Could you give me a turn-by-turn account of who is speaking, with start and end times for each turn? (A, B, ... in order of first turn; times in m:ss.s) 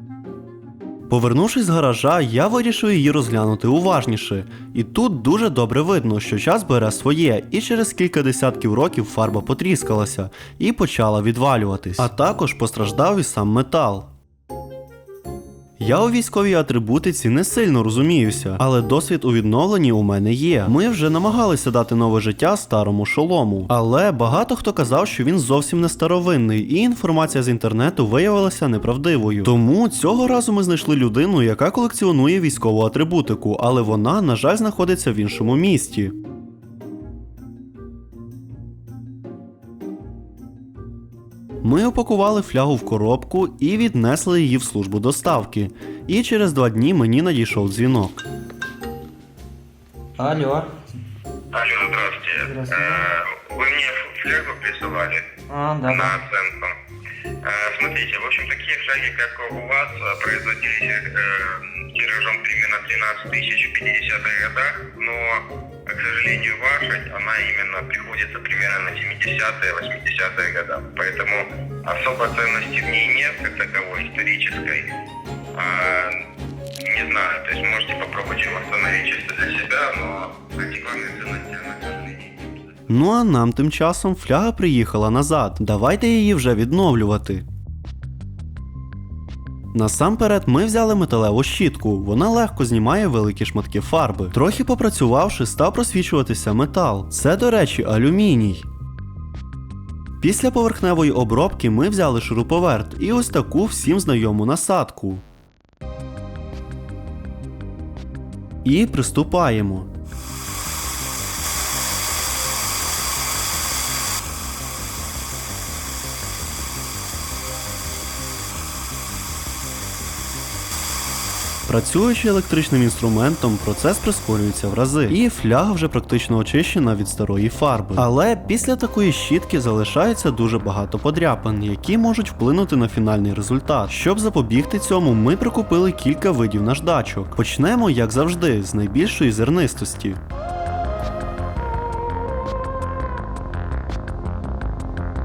0:01.1-0:14.1 A
0:15.8-0:36.1 A
0:41.6-0:48.2 A
0:50.2-0:50.9 B
0:51.5-0:55.4 C
0:52.4-0:53.0 B
0:55.5-0:56.1 B
0:55.9-0:56.8 C
0:57.4-1:14.9 C
1:15.5-1:16.2 C
1:16.8-1:22.7 C
1:22.9-1:27.4 A
1:29.7-1:38.7 A
1:40.2-1:45.2 A
1:48.6-1:49.9 A
2:01.7-2:20.2 A